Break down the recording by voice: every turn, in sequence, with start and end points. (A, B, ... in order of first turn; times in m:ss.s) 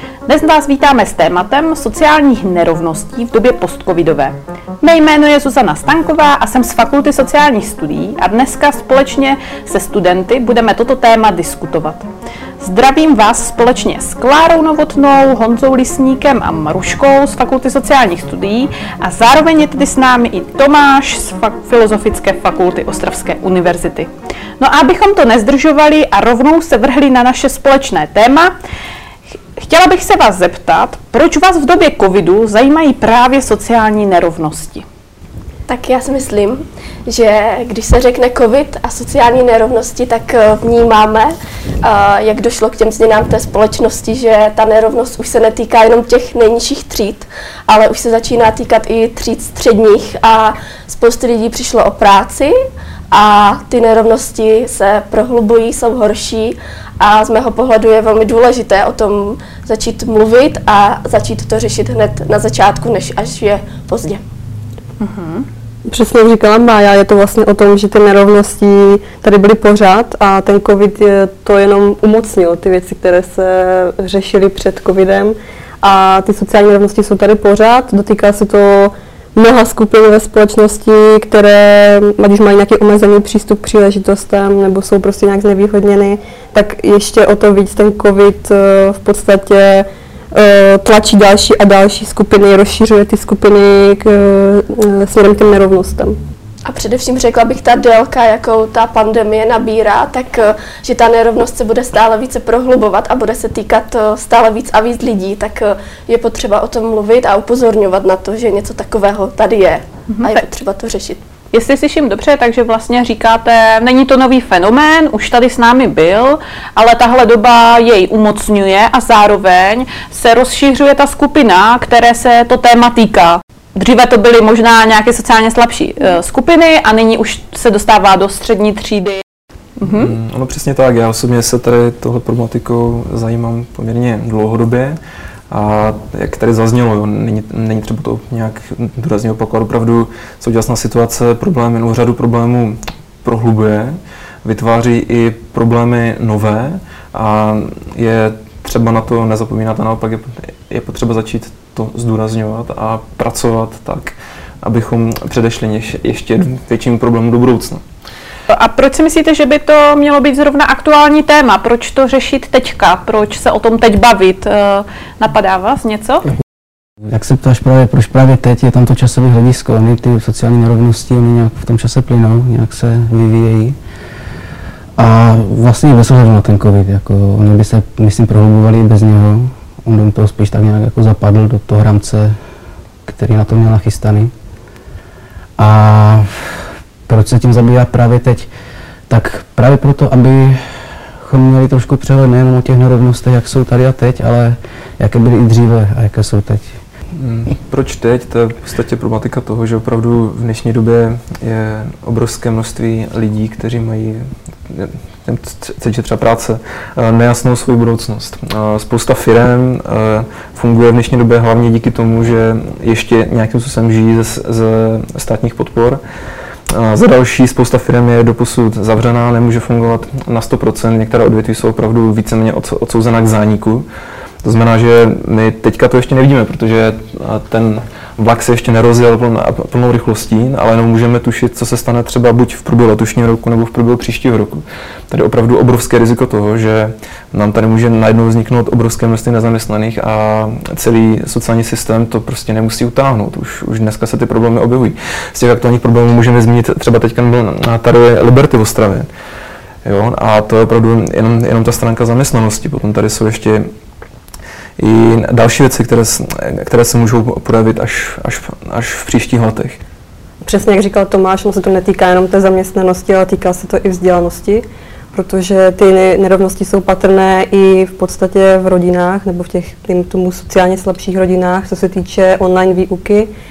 0:00.3-0:12.1 A
0:12.6-0:24.1 A
0:24.6-0:28.5 A
0:29.6-0:34.9 A
0:35.7-0:52.6 B
0:53.1-1:04.2 B
1:05.0-1:05.5 A
1:05.9-1:36.2 C
1:36.7-1:51.2 B
1:50.1-1:50.4 A
1:51.5-2:09.2 A
2:09.8-2:10.1 A
2:09.8-2:15.0 D
2:15.5-2:37.8 D
2:38.5-2:46.3 A
2:47.1-2:53.8 E
2:55.0-3:02.4 E
3:03.1-3:04.3 E
3:05.6-3:06.3 E
3:07.1-3:08.5 E
3:09.1-3:16.8 E
3:17.2-3:36.0 D
3:36.7-3:43.9 D
3:44.4-4:09.1 D
4:09.8-4:13.7 D
4:14.8-4:19.8 D
4:20.4-4:33.3 C